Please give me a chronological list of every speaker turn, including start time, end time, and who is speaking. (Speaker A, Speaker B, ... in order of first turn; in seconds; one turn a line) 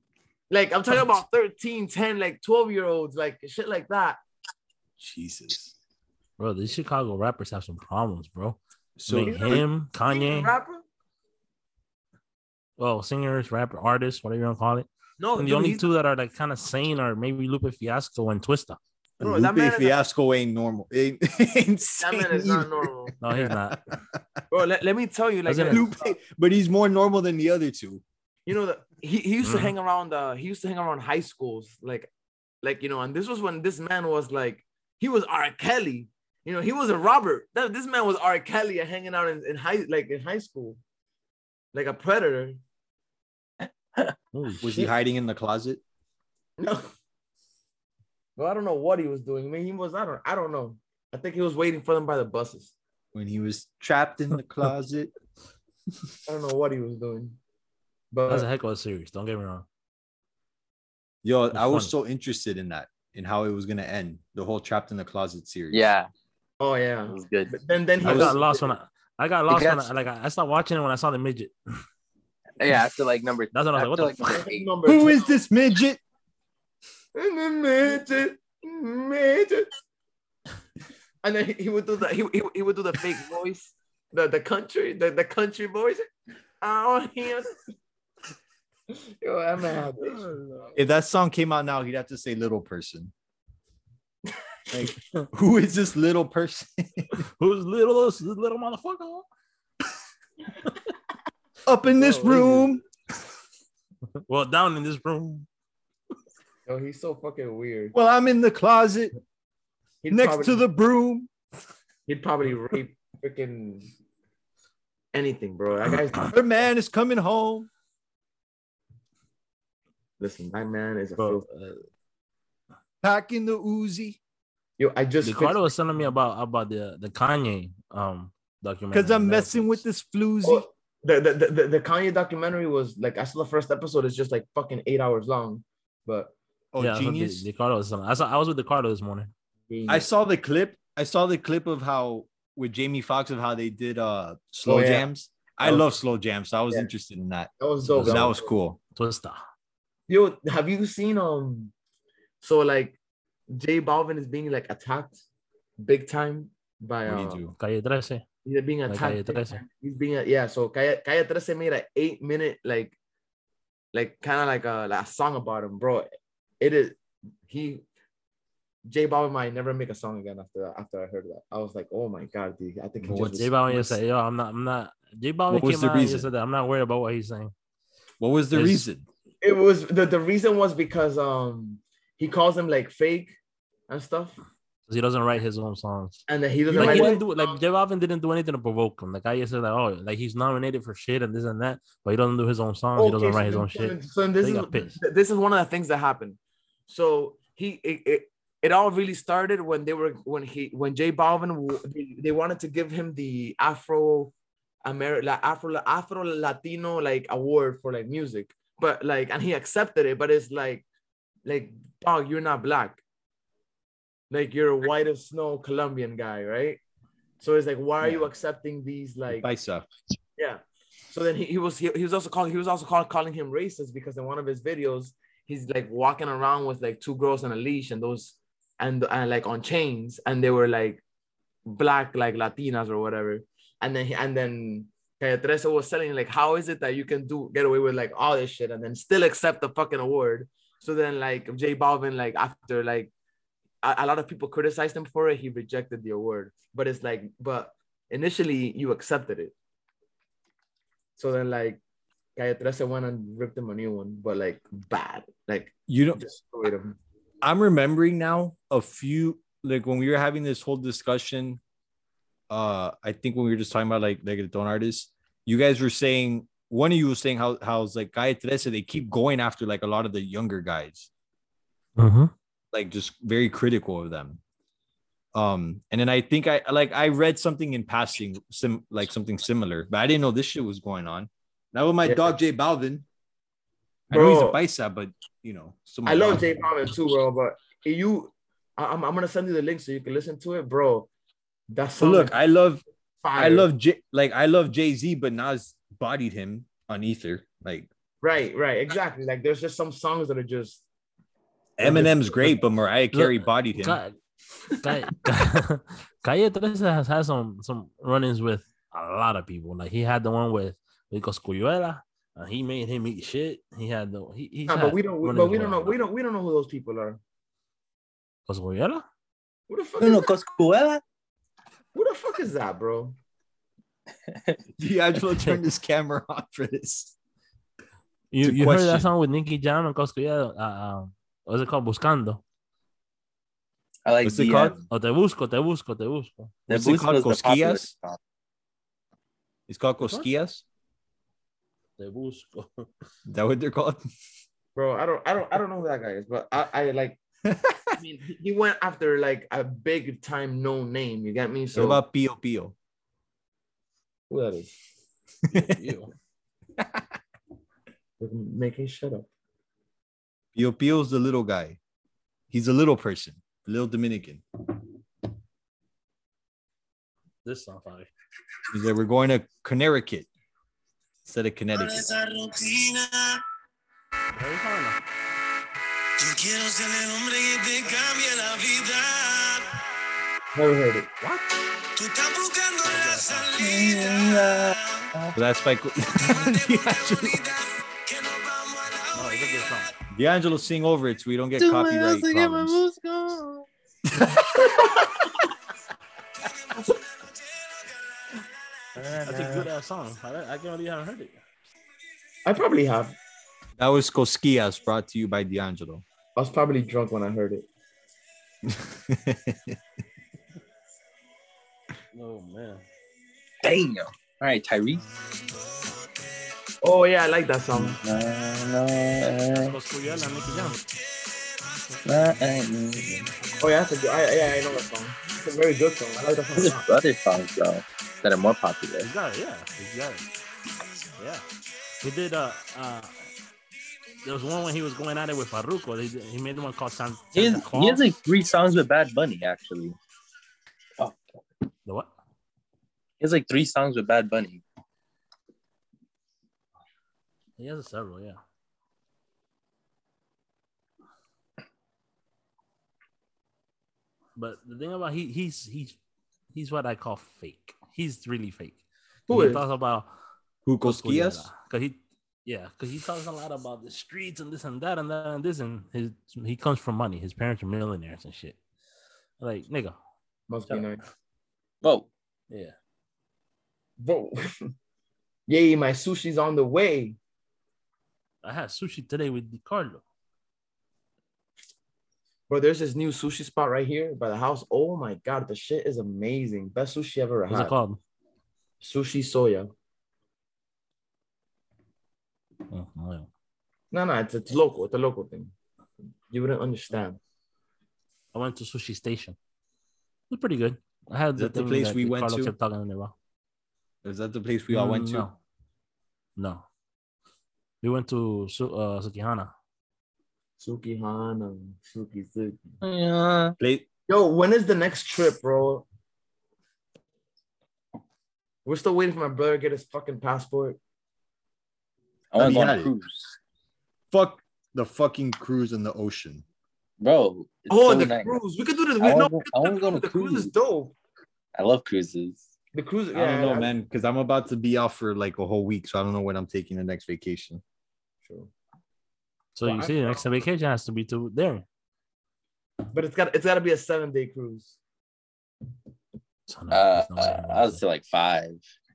Speaker A: 0.5-4.2
Speaker B: 5.0-5.7
Speaker C: 6.4-10.5
Speaker B: 9.0-9.6
Speaker A: 9.2-10.8
Speaker C: 12.8-18.8
Speaker A: 15.2-15.9
Speaker B: 19.2-24.2
Speaker A: 19.2-20.0
Speaker A: 22.0-23.2
Speaker C: 23.2-23.8
Speaker A: 24.5-26.1
Speaker C: 25.4-25.8
Speaker B: 25.7-28.0
Speaker A: 28.4-32.1
Speaker C: 29.4-29.7
Speaker A: 32.6-40.8
Speaker A: 41.7-42.6
Speaker C: 44.3-44.9
Speaker B: 44.6-45.8
Speaker A: 46.6-46.9
Speaker A: 48.4-52.7
Speaker B: 53.1-55.1
Speaker A: 56.2-57.4
Speaker A: 58.1-58.5
Speaker C: 58.3-59.6
Speaker B: 61.2-65.9
Speaker C: 61.5-61.9
Speaker D: 65.7-66.1
Speaker A: 66.6-68.8
Speaker D: 67.1-67.5
Speaker C: 68.0-71.5
Speaker B: 68.0-68.3
Speaker D: 69.5-69.9
Speaker D: 72.6-74.7
Speaker C: 73.5-74.5
Speaker A: 74.2-75.3
Speaker B: 74.8-76.0
Speaker A: 77.1-79.7
Speaker A: 81.2-86.1
Speaker A: 86.6-87.6
Speaker A: 88.9-90.4
Speaker C: 90.1-90.7
Speaker B: 90.7-93.1
Speaker C: 94.7-95.3
Speaker B: 95.3-97.2
Speaker C: 97.4-99.2
Speaker B: 101.6-102.8
Speaker A: 101.9-102.7
Speaker C: 104.2-105.5
Speaker A: 106.7-107.9
Speaker B: 107.9-109.1
Speaker A: 110.0-110.6
Speaker B: 110.1-111.3
Speaker A: 112.1-113.9
Speaker A: 115.1-116.3
Speaker B: 116.2-117.7
Speaker A: 120.2-121.5
Speaker C: 121.2-121.8
Speaker B: 123.0-124.2
Speaker A: 124.8-125.7
Speaker C: 125.2-129.8
Speaker B: 128.9-130.7
Speaker A: 130.4-136.3
Speaker B: 136.7-137.5
Speaker C: 136.8-139.3
Speaker A: 139.7-140.1
Speaker B: 139.9-148.8
Speaker A: 144.6-145.1
Speaker A: 145.6-145.9
Speaker A: 147.6-148.5
Speaker C: 147.8-148.3
Speaker C: 148.9-149.4
Speaker A: 150.1-151.7
Speaker A: 152.4-153.0
Speaker A: 153.5-155.2
Speaker A: 155.8-157.4
Speaker B: 157.0-157.5
Speaker C: 157.6-158.2
Speaker A: 158.4-162.9
Speaker C: 158.9-159.6
Speaker A: 163.9-167.8
Speaker A: 168.8-173.5
Speaker B: 173.0-174.0
Speaker C: 173.3-177.5
Speaker B: 175.5-176.3
Speaker B: 178.2-179.1
Speaker C: 178.5-178.8
Speaker A: 179.4-183.3
Speaker A: 183.9-184.4
Speaker C: 184.9-195.0
Speaker A: 186.3-187.6
Speaker B: 186.7-187.2
Speaker A: 193.0-204.3
Speaker A: 204.8-210.8
Speaker A: 211.4-213.0
Speaker A: 214.3-216.8
Speaker A: 217.4-219.5
Speaker B: 218.0-218.3
Speaker B: 219.3-219.9
Speaker A: 220.4-231.0
Speaker A: 231.7-243.1
Speaker A: 243.8-249.5
Speaker A: 251.2-251.8
Speaker A: 252.3-257.0
Speaker B: 255.9-256.2
Speaker B: 257.4-261.6
Speaker B: 262.5-271.1
Speaker C: 272.0-272.3
Speaker B: 272.7-274.4
Speaker B: 275.3-283.0
Speaker A: 282.0-282.3
Speaker B: 284.1-286.5
Speaker A: 284.1-284.6
Speaker A: 286.1-291.1
Speaker A: 291.7-292.3
Speaker B: 292.0-292.8
Speaker A: 293.2-293.7
Speaker B: 293.4-297.9
Speaker A: 298.2-300.8
Speaker B: 301.8-304.0
Speaker A: 301.8-302.5
Speaker C: 303.1-304.1
Speaker C: 304.8-315.9
Speaker A: 314.7-317.2
Speaker C: 318.5-319.0
Speaker A: 319.7-320.3
Speaker D: 320.0-321.0
Speaker A: 321.9-323.2
Speaker B: 324.8-327.1
Speaker C: 328.3-332.4
Speaker B: 328.4-329.1
Speaker D: 334.1-334.8
Speaker B: 334.2-334.8
Speaker C: 334.9-336.6
Speaker D: 336.7-338.2
Speaker B: 336.7-337.9
Speaker B: 339.7-340.6
Speaker C: 340.0-340.3
Speaker C: 342.0-342.9
Speaker B: 343.2-344.0
Speaker A: 344.8-347.2
Speaker B: 347.4-347.9
Speaker A: 348.0-352.0
Speaker B: 351.7-352.7
Speaker A: 354.3-354.7
Speaker C: 355.5-356.1
Speaker A: 358.2-359.3
Speaker B: 360.5-361.8
Speaker B: 362.5-364.4
Speaker C: 367.4-368.1
Speaker B: 368.7-370.3
Speaker B: 371.2-372.1
Speaker E: 371.7-373.4
Speaker C: 374.3-375.0
Speaker E: 376.2-379.8
Speaker A: 380.5-381.1
Speaker E: 381.8-385.1
Speaker C: 382.8-383.5
Speaker D: 383.6-385.4
Speaker B: 385.3-387.4
Speaker E: 386.2-389.8
Speaker C: 389.1-389.9
Speaker B: 390.1-392.8
Speaker D: 391.6-393.7
Speaker B: 394.1-394.7
Speaker A: 394.6-395.1
Speaker E: 396.4-398.5
Speaker D: 399.0-399.7
Speaker C: 399.2-401.4
Speaker A: 402.4-403.2
Speaker B: 403.8-406.0
Speaker A: 406.4-407.6
Speaker B: 408.6-409.8
Speaker C: 412.1-412.9
Speaker D: 413.6-415.0
Speaker A: 416.8-418.0
Speaker D: 417.7-419.8
Speaker C: 419.5-420.8
Speaker E: 421.1-422.0
Speaker D: 422.0-423.3
Speaker A: 423.6-426.8
Speaker D: 426.5-429.1
Speaker C: 429.0-430.3
Speaker C: 431.2-431.4
Speaker C: 432.0-433.1
Speaker C: 434.2-438.1
Speaker D: 437.3-440.0
Speaker D: 443.2-444.6
Speaker C: 447.6-448.4
Speaker C: 454.4-456.0
Speaker C: 456.5-460.1
Speaker A: 459.3-459.6
Speaker B: 460.6-461.5
Speaker C: 460.8-468.6
Speaker C: 469.4-470.0
Speaker A: 470.5-471.0
Speaker D: 471.8-472.1
Speaker C: 472.5-472.7
Speaker A: 474.0-474.7
Speaker A: 475.5-477.2
Speaker C: 478.4-480.0
Speaker A: 482.5-487.8
Speaker C: 487.5-488.0
Speaker A: 488.8-489.7
Speaker C: 492.7-493.3
Speaker A: 493.9-495.5
Speaker A: 496.3-497.2
Speaker C: 498.3-499.4
Speaker C: 500.3-503.1
Speaker B: 501.4-502.5
Speaker B: 504.0-505.2
Speaker C: 504.7-505.4
Speaker C: 506.4-506.6
Speaker C: 507.8-509.5
Speaker A: 510.6-512.6
Speaker D: 512.8-513.5
Speaker B: 513.6-513.9
Speaker A: 514.1-515.9
Speaker A: 518.6-520.8
Speaker D: 522.3-523.4
Speaker B: 522.4-522.9
Speaker B: 524.1-526.4
Speaker D: 527.0-528.4
Speaker A: 527.7-530.9
Speaker D: 529.0-530.5
Speaker D: 531.5-532.4
Speaker A: 532.7-533.7
Speaker B: 533.1-537.6
Speaker A: 538.2-538.5
Speaker C: 539.5-541.6
Speaker A: 539.6-540.2
Speaker A: 542.9-544.8
Speaker C: 546.5-547.8
Speaker D: 546.7-548.6